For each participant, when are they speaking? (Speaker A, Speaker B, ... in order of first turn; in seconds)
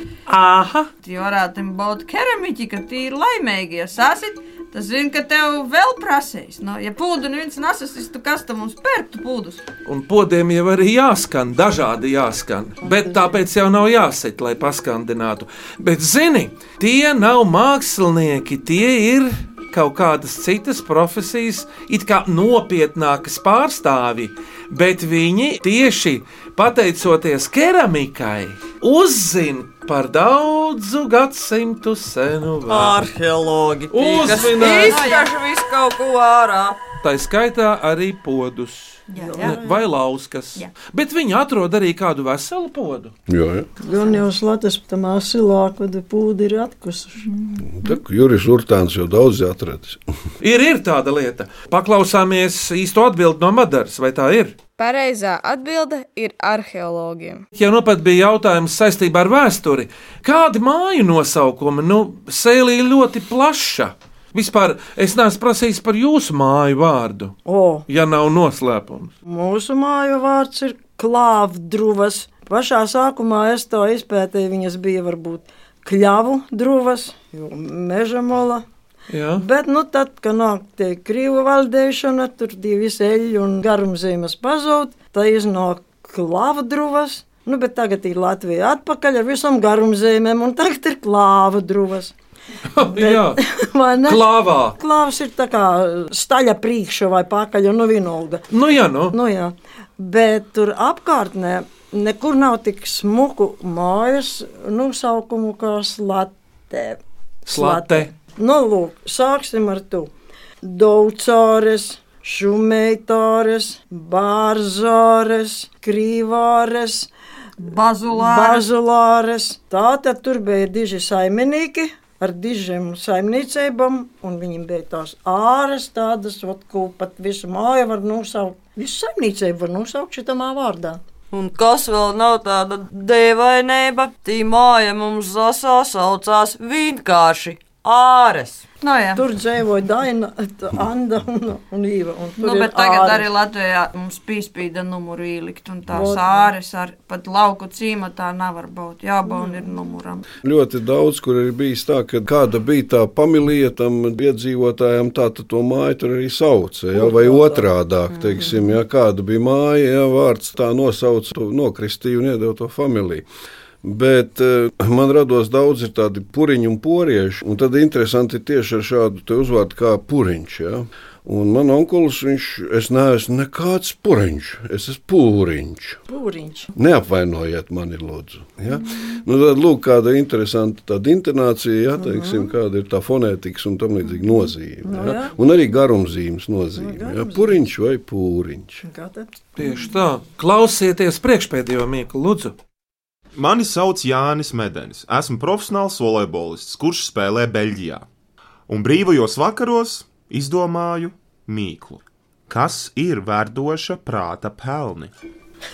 Speaker A: 0.3-0.9, 9.9-33.0, 33.9-35.1, 37.0-43.1, 50.4-54.5, 57.5-67.4, 67.9-69.1, 79.1-79.4, 92.7-93.4, 94.0-94.8, 98.5-99.2, 107.5-108.1, 189.6-192.6
Speaker B: 1.0-9.6, 34.7-35.3, 39.1-39.6, 117.6-118.7, 138.8-139.2, 142.4-150.2
Speaker C: 12.8-13.3, 39.1-39.9, 43.8-47.3, 67.5-67.8, 69.3-78.6, 79.4-92.1, 92.9-98.4, 99.1-110.1, 110.6-117.1, 118.1-131.0, 139.2-143.3, 145.9-146.5, 149.3-149.7, 156.9-157.7, 176.1-176.7, 182.0-182.5, 184.9-185.3, 186.8-187.6, 188.8-189.3
Speaker D: 32.7-36.8, 131.3-138.6
Speaker E: 43.3-43.7, 47.7-50.0, 150.4-163.3, 163.8-176.0, 176.8-188.8
Speaker F: 54.8-57.5
Speaker G: 193.3-198.1, 198.7-205.1